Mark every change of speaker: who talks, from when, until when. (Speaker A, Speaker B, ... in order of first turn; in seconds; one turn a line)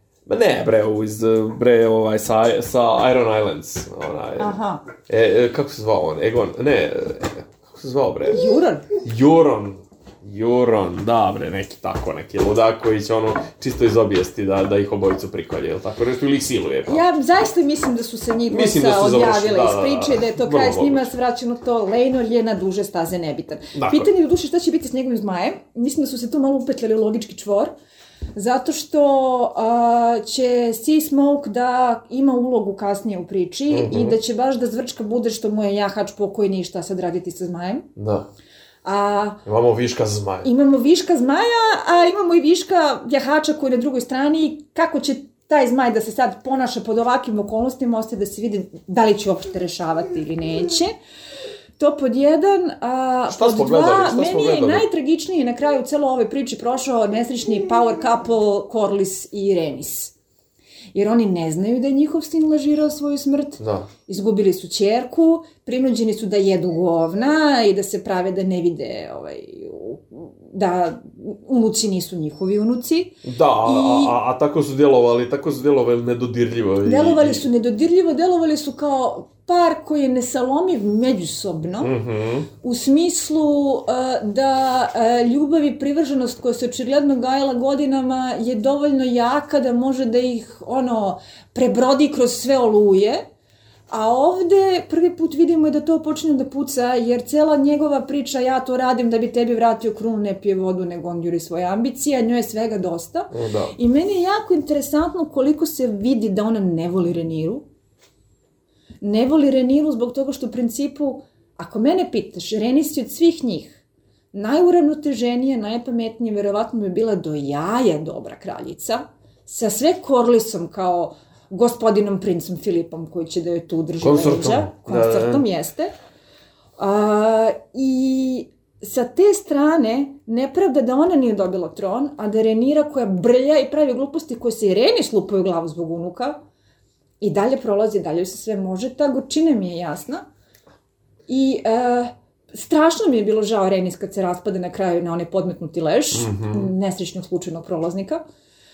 Speaker A: 0.2-4.5
Speaker B: 4.4-4.8
Speaker A: 5.1-8.4
Speaker B: 8.3-8.8
Speaker A: 9.0-17.0
Speaker B: 16.8-27.7
Speaker A: 18.5-21.1
Speaker A: 23.7-24.1
Speaker B: 28.4-37.9
Speaker A: 33.7-34.2
Speaker A: 38.0-38.3
Speaker B: 38.8-39.4
Speaker A: 39.5-40.5
Speaker B: 40.4-50.9
Speaker B: 51.8-60.1
Speaker A: 53.3-54.9
Speaker B: 60.9-74.1
Speaker A: 63.6-63.9
Speaker A: 73.2-77.5
Speaker B: 76.8-81.9
Speaker A: 81.8-82.5
Speaker B: 82.6-93.2
Speaker B: 93.9-107.6
Speaker A: 103.3-103.7
Speaker B: 109.0-113.8
Speaker B: 114.3-125.9
Speaker A: 124.0-125.5
Speaker B: 126.8-136.4
Speaker B: 137.2-140.2
Speaker B: 141.3-148.2
Speaker A: 146.1-146.7